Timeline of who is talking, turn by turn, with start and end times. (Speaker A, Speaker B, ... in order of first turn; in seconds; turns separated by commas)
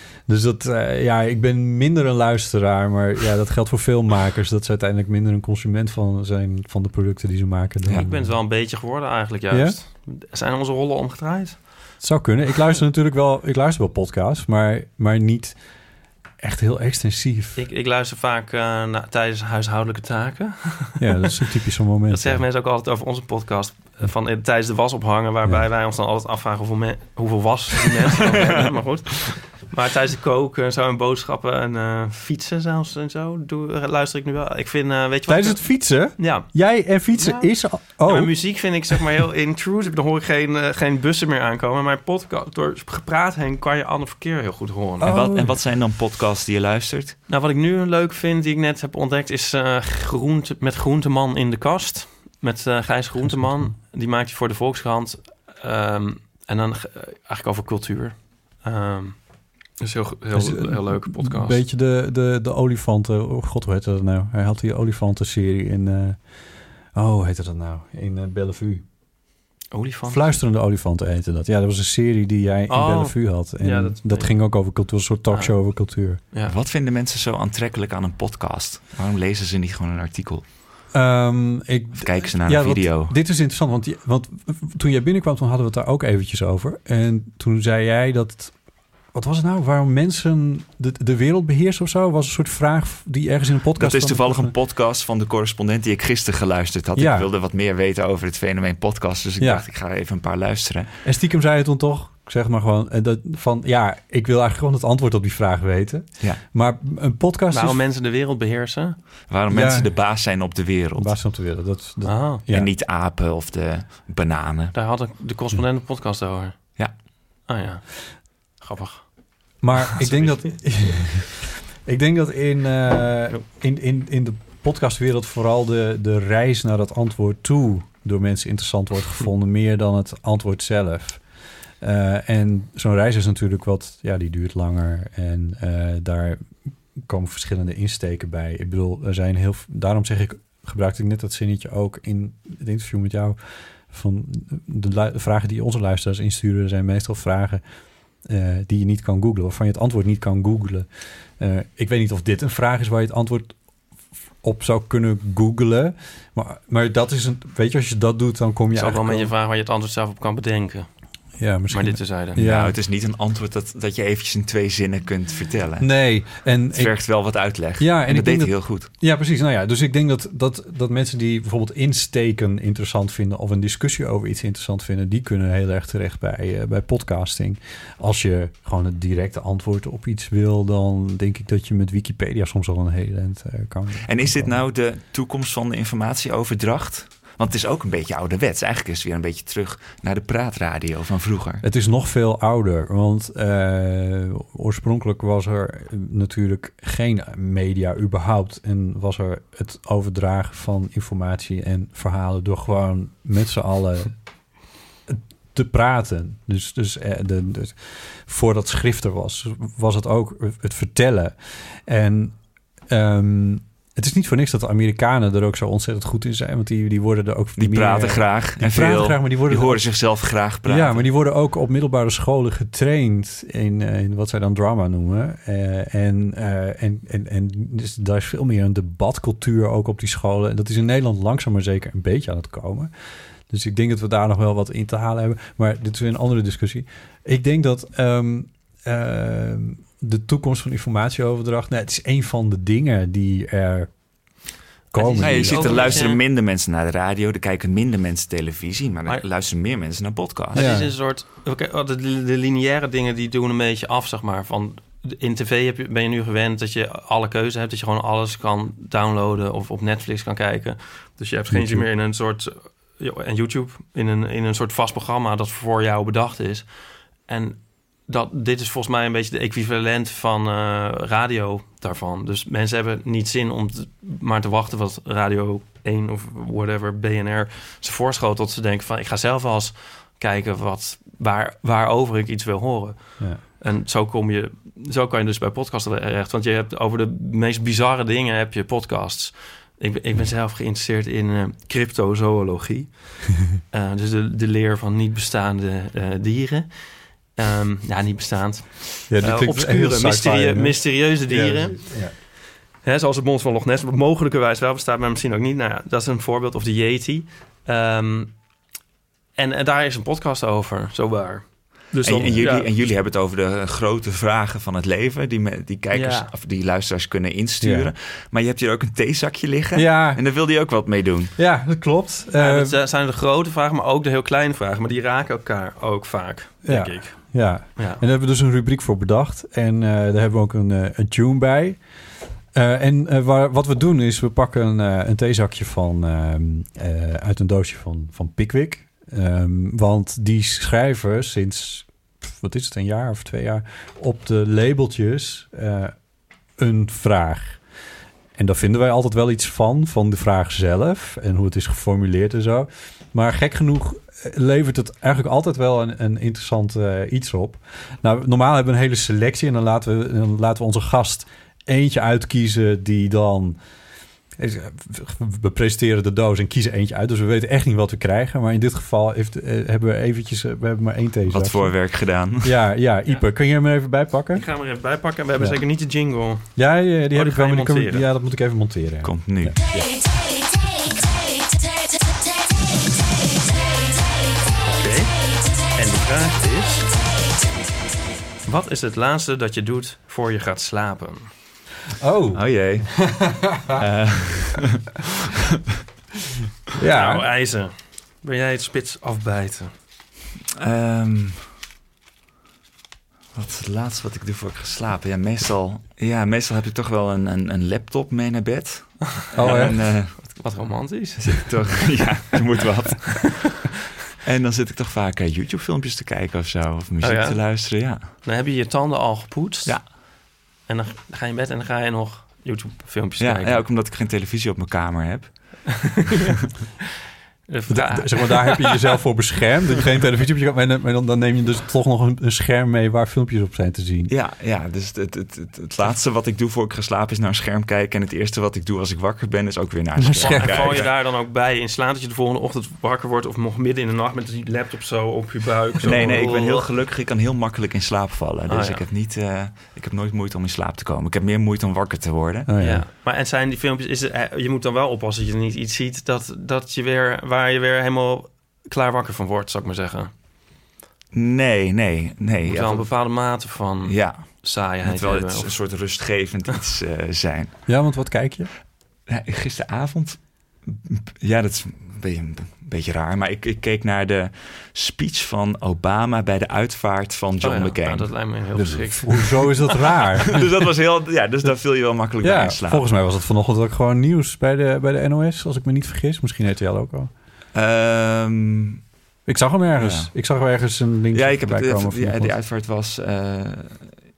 Speaker A: 0.3-8.3, Speaker B: 7.9-11.6, Speaker A: 9.5-9.8, Speaker A: 12.0-15.6, Speaker A: 16.4-17.6, Speaker B: 17.6-21.3, Speaker A: 21.0-22.4, Speaker B: 22.1-35.6, Speaker A: 35.3-38.4, Speaker B: 36.2-36.5, Speaker B: 37.1-45.1, Speaker A: 45.0-45.6, Speaker C: 45.0-47.2, Speaker B: 47.3-61.6, Speaker A: 60.3-66.2, Speaker A: 66.9-68.8, Speaker B: 69.7-70.3, Speaker A: 70.1-76.2, Speaker B: 72.7-74.3, Speaker B: 75.3-75.6, Speaker C: 76.5-80.5, Speaker A: 80.9-88.5, Speaker C: 82.0-83.1, Speaker A: 89.1-94.5, Speaker C: 93.8-100.9, Speaker A: 97.0-97.3, Speaker A: 99.4-99.7, Speaker A: 101.0-107.8, Speaker B: 107.5-109.0, Speaker C: 109.3-111.1, Speaker A: 109.5-109.9, Speaker A: 111.0-112.7, Speaker B: 112.0-112.4, Speaker C: 112.5-114.7, Speaker B: 114.7-116.6, Speaker B: 117.5-117.9, Speaker B: 118.6-119.1, Speaker A: 119.6-131.2, Speaker B: 119.8-120.5, Speaker A: 131.8-136.4, Speaker A: 137.0-143.4, Speaker A: 143.9-147.6, Speaker A: 148.2-150.9, Speaker A: 151.4-153.6, Speaker A: 154.4-159.3, Speaker B: 158.7-160.9, Speaker A: 161.4-162.8, Speaker B: 161.7-162.4, Speaker C: 162.4-166.0, Speaker A: 165.8-167.2, Speaker C: 166.7-168.9, Speaker A: 167.8-184.6, Speaker C: 184.1-191.6, Speaker A: 191.6-204.2, Speaker A: 205.1-212.4, Speaker A: 212.9-219.9, Speaker C: 217.6-221.1, Speaker A: 220.7-232.9, Speaker A: 233.5-243.9, Speaker A: 244.9-246.0, Speaker B: 244.9-246.2, Speaker C: 245.2-250.7, Speaker B: 250.5-266.7, Speaker A: 250.6-250.9, Speaker A: 261.5-261.9, Speaker B: 267.3-301.8, Speaker A: 299.1-302.1, Speaker B: 302.8-308.3, Speaker B: 309.4-312.7, Speaker C: 312.0-321.3, Speaker B: 315.9-316.3, Speaker A: 317.6-317.9, Speaker A: 319.7-320.2, Speaker A: 321.4-322.8, Speaker B: 322.4-328.0, Speaker A: 326.6-331.8, Speaker A: 332.5-345.9, Speaker A: 346.6-347.6, Speaker A: 348.4-363.6, Speaker A: 364.4-371.8, Speaker C: 371.3-372.6, Speaker A: 372.4-374.5, Speaker B: 374.3-376.6, Speaker A: 376.6-380.0, Speaker B: 377.1-378.1, Speaker C: 379.0-379.6, Speaker B: 384.6-386.9, Speaker B: 388.5-391.3, Speaker A: 392.0-393.8, Speaker C: 392.3-395.1, Speaker A: 396.8-397.3, Speaker B: 396.9-399.7, Speaker C: 400.6-401.4, Speaker C: 403.3-410.2, Speaker A: 409.4-409.8, Speaker B: 409.4-411.8, Speaker C: 411.3-413.7, Speaker C: 414.2-418.1, Speaker B: 417.0-420.0, Speaker B: 420.7-423.6, Speaker C: 423.2-425.9, Speaker B: 427.5-428.9, Speaker A: 427.7-434.1, Speaker C: 434.1-440.9, Speaker A: 440.0-440.8, Speaker B: 440.2-446.7, Speaker C: 445.8-452.5, Speaker B: 448.5-448.9, Speaker A: 452.5-452.9, Speaker B: 452.6-460.1, Speaker C: 461.1-462.9, Speaker B: 462.4-465.5, Speaker C: 463.9-467.6, Speaker A: 467.7-468.5, Speaker C: 469.1-479.2, Speaker B: 477.4-479.7, Speaker A: 478.6-480.4, Speaker C: 480.3-482.9, Speaker A: 482.2-487.1, Speaker C: 487.5-488.8, Speaker A: 489.3-492.3, Speaker C: 489.8-490.1, Speaker C: 491.1-493.9